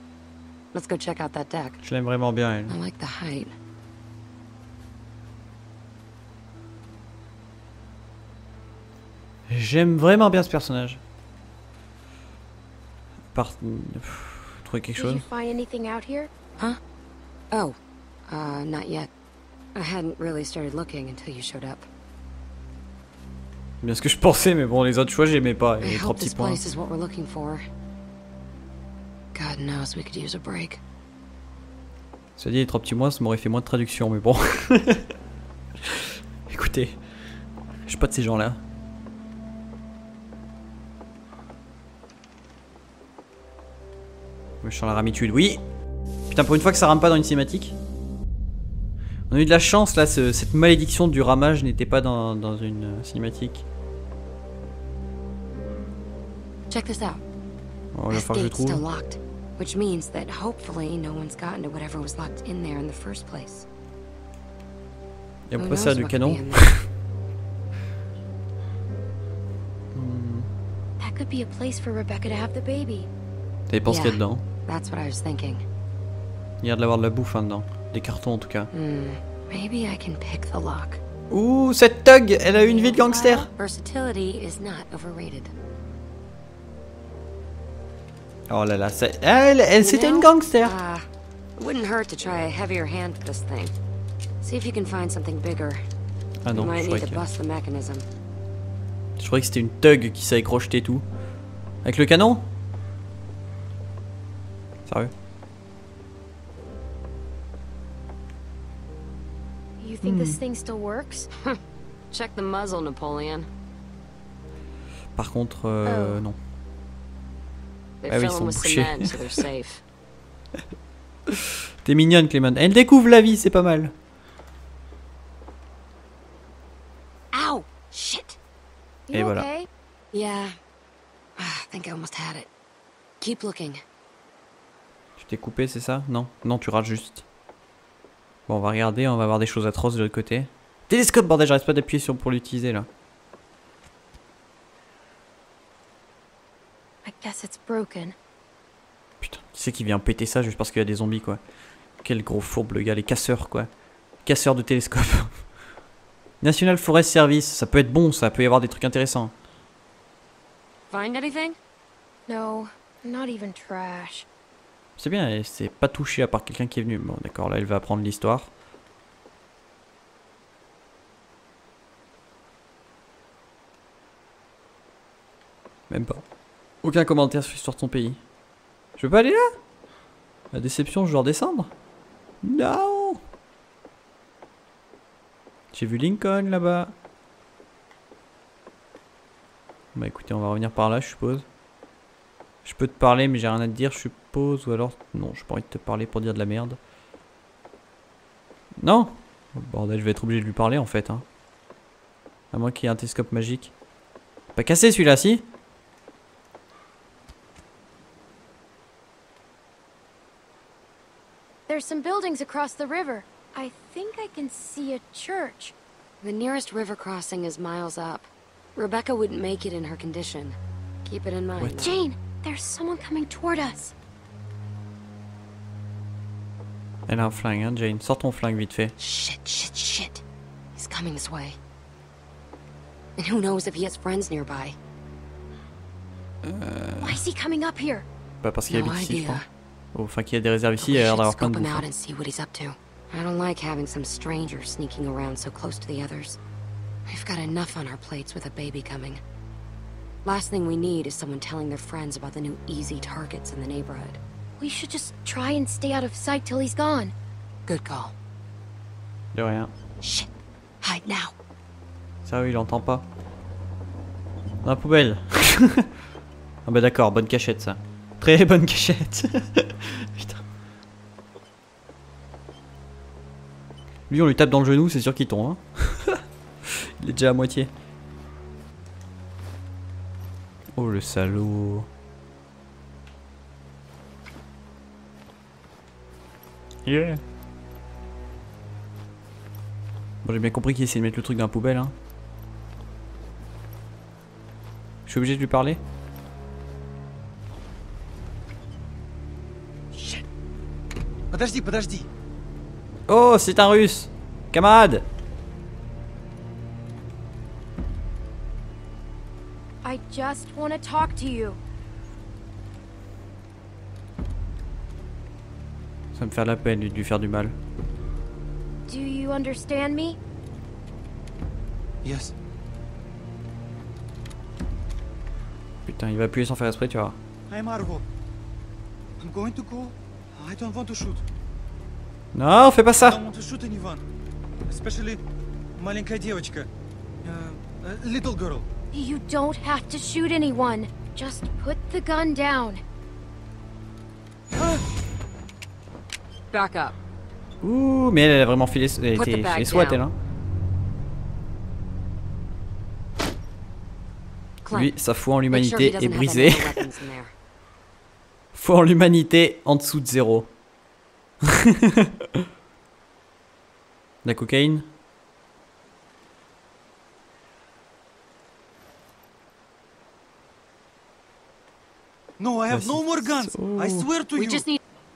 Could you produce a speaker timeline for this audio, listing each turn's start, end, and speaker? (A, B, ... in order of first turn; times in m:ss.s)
0:00.7-0:01.8 A
0:01.8-0:02.8 B
0:02.7-0:03.5 A
0:09.5-0:11.0 B
0:13.3-0:15.2 B
0:14.9-0:16.3 C
0:17.5-0:17.8 A
0:18.3-0:19.1 A
0:19.7-0:21.8 A
0:23.8-0:26.6 B
0:25.8-0:27.6 A
0:29.3-0:30.8 A
0:32.4-0:35.1 B
0:36.5-0:37.0 B
0:37.9-0:38.6 B
0:44.6-0:45.6 B
0:46.3-0:47.8 B
0:49.3-0:53.6 B
0:56.7-0:57.2 A
0:57.9-0:58.8 B
0:58.1-1:03.6 A
1:05.5-1:06.8 B
1:05.6-1:06.7 A
1:09.9-1:10.5 B
1:11.0-1:13.1 C
1:13.7-1:14.4 B
1:13.8-1:15.6 A
1:16.6-1:18.7 B
1:18.7-1:21.0 A
1:21.3-1:23.5 B
1:22.5-1:25.5 A
1:23.1-1:23.4 C
1:28.5-1:30.7 B
1:29.8-1:33.7 A
1:34.4-1:35.8 A
1:36.4-1:37.2 B
1:36.5-1:38.0 A
1:39.2-1:41.0 B
1:41.8-1:42.4 B
1:44.8-1:45.1 B
1:49.8-1:51.3 C
1:50.0-1:50.4 B
1:52.1-1:53.5 A
1:55.2-1:56.4 B
1:55.8-1:56.2 C
1:58.0-1:59.8 A
1:58.1-1:59.4 B
2:01.8-2:03.9 B
2:07.3-2:08.4 A
2:09.1-2:09.7 C
2:09.1-2:09.5 B
2:10.1-2:10.5 A
2:11.4-2:12.5 A
2:13.2-2:13.8 A
2:15.2-2:17.2 B
2:18.5-2:22.9 B
2:27.0-2:28.1 C
2:29.2-2:31.4 B
2:32.0-2:33.7 B
2:34.2-2:35.3 B
2:36.4-2:39.3 B
2:40.9-2:41.6 A
2:42.3-2:44.3 C
2:45.0-2:48.5 B
2:55.9-2:56.2 B
2:56.8-2:58.2 B
2:59.0-2:59.5 B
3:00.5-3:01.7 B
3:02.4-3:03.2 B
3:05.7-3:06.9 B
3:09.9-3:11.4 B
3:12.6-3:16.8 B
3:18.8-3:21.2 B
3:22.5-3:23.7 B
3:24.5-3:25.4 B
3:31.7-3:35.7 C
3:36.2-3:42.0 A
3:41.6-3:41.8 B
3:41.8-3:43.9 C
3:47.1-3:48.9 B
3:49.0-3:50.2 A
3:50.8-3:51.6 A
3:53.2-3:54.8 A
3:56.4-3:57.2 B
3:57.0-3:58.0 C
3:58.4-3:59.4 B
3:58.6-3:59.4 A
3:59.9-4:01.8 B
4:00.8-4:06.4 A
4:07.1-4:09.2 A
4:10.2-4:14.2 A
4:14.6-4:17.1 C
4:17.7-4:18.1 A
4:19.3-4:19.7 B
4:20.0-4:20.3 A
4:20.8-4:21.3 A
4:22.2-4:23.0 B
4:24.6-4:25.9 B
4:26.6-4:30.4 B
4:34.1-4:36.2 B
4:37.0-4:37.7 B
4:40.8-4:41.9 B
4:46.8-4:47.2 B
4:50.2-4:51.9 B
4:55.1-4:55.8 B
4:59.9-5:00.2 D
5:01.3-5:02.1 D
5:03.1-5:05.0 B
5:09.8-5:11.6 C
5:16.1-5:17.5 B
5:18.9-5:20.2 C
5:22.0-5:22.3 D
5:25.8-5:27.2 B
5:27.5-5:28.0 D
5:29.2-5:31.2 D
5:32.3-5:33.2 B
5:32.9-5:34.0 D
5:34.7-5:35.2 D
5:35.8-5:36.7 D
5:37.2-5:38.6 D
5:38.9-5:42.8 C
5:44.5-5:44.8 D
5:46.5-5:47.0 A
5:47.6-5:50.1 B
5:49.1-5:50.0 A
5:54.6-5:55.0 A
5:54.7-5:56.8 B
5:55.5-5:57.3 A
5:58.5-6:00.5 B
6:01.6-6:02.0 B
6:04.2-6:04.9 B
6:12.4-6:14.7 D
6:12.7-6:14.1 B
6:14.3-6:14.8 A